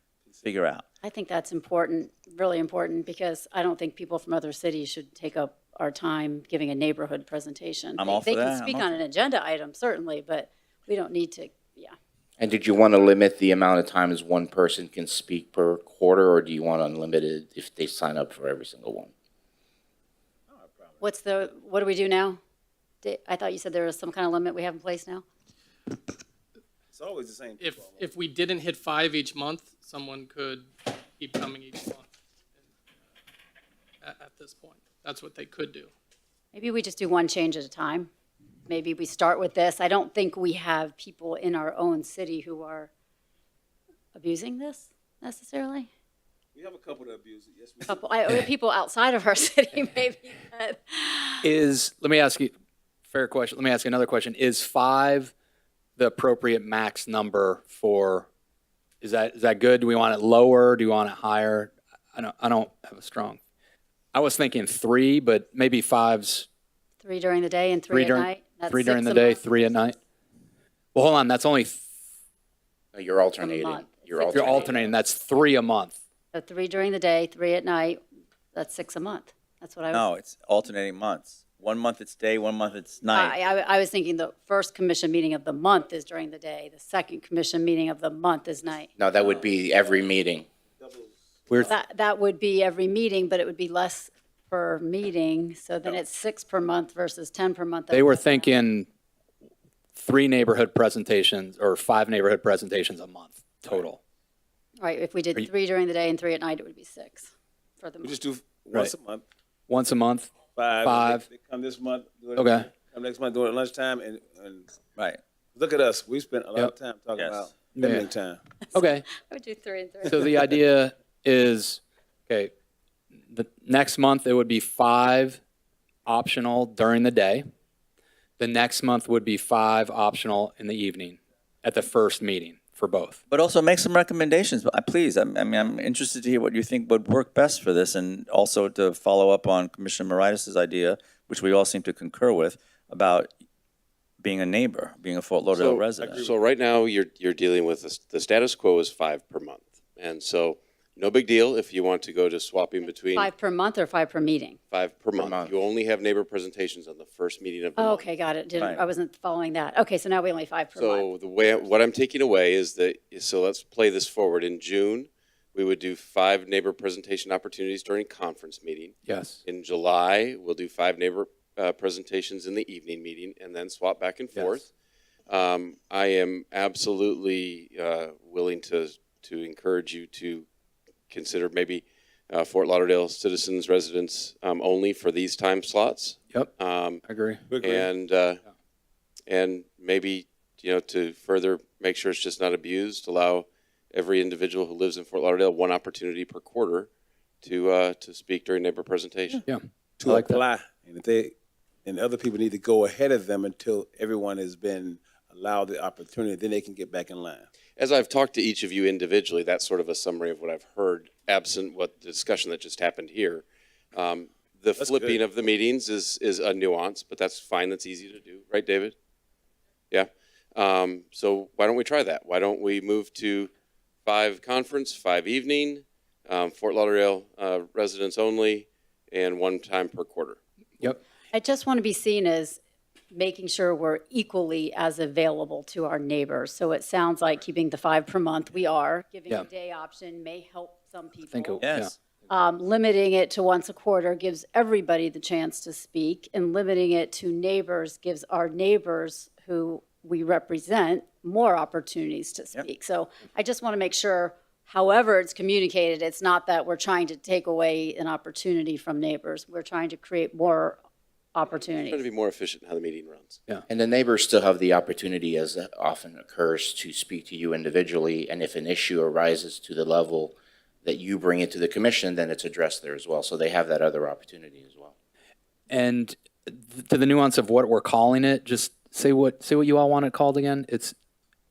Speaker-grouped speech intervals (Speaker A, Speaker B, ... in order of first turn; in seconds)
Speaker A: 0.4-0.8, 8.0-9.0, 79.9-83.5, 117.2-117.4, 133.3-143.3, 144.2-146.2, 158.6-158.8, 241.6-241.9
Speaker B: 1.0-11.9, 21.0-22.4, 23.0-25.2, 36.5-38.1, 38.7-42.9, 44.1-45.9, 47.9-51.5, 67.0-69.4, 73.4-74.9, 76.3-78.0, 78.5-80.1, 83.1-88.9, 91.6-98.6, 104.8-108.2, 118.7-120.4, 153.2-154.6, 157.8-161.1, 231.3-232.6, 233.1-241.6, 242.3-260.8, 261.3-262.1
Speaker C: 12.4-19.1, 72.9-74.8, 89.0-90.5, 155.2-155.5, 263.7-274.9
Speaker D: 20.5-21.0, 26.9-28.1, 46.5-48.0, 90.8-91.2, 108.0-109.2, 110.5-114.7, 115.5-118.4, 146.0-146.3, 187.5-187.9, 200.0-201.3, 201.8-207.5, 214.8-215.2
Speaker E: 27.6-32.1, 34.0-35.9
Speaker F: 51.4-52.5, 53.1-55.3, 56.0-58.3, 59.0-63.4, 64.1-66.5, 67.9-70.0, 71.0-71.8, 74.3-76.0, 97.9-98.9, 100.0-104.0, 109.7-111.3, 112.4-112.7, 117.8-118.1, 118.7-119.1, 120.1-122.5, 123.3-125.4, 126.1-127.4, 128.4-133.2, 169.1-169.4, 187.1-187.4, 199.5-200.4, 241.3-242.0, 275.7-280.9
Speaker G: 145.5-153.3, 154.7-158.1, 160.8-174.7, 175.3-180.5, 181.1-187.0, 187.6-188.4, 189.3-196.9, 197.4-199.4, 207.8-218.9, 219.9-223.5, 224.0-230.4, 261.6-263.4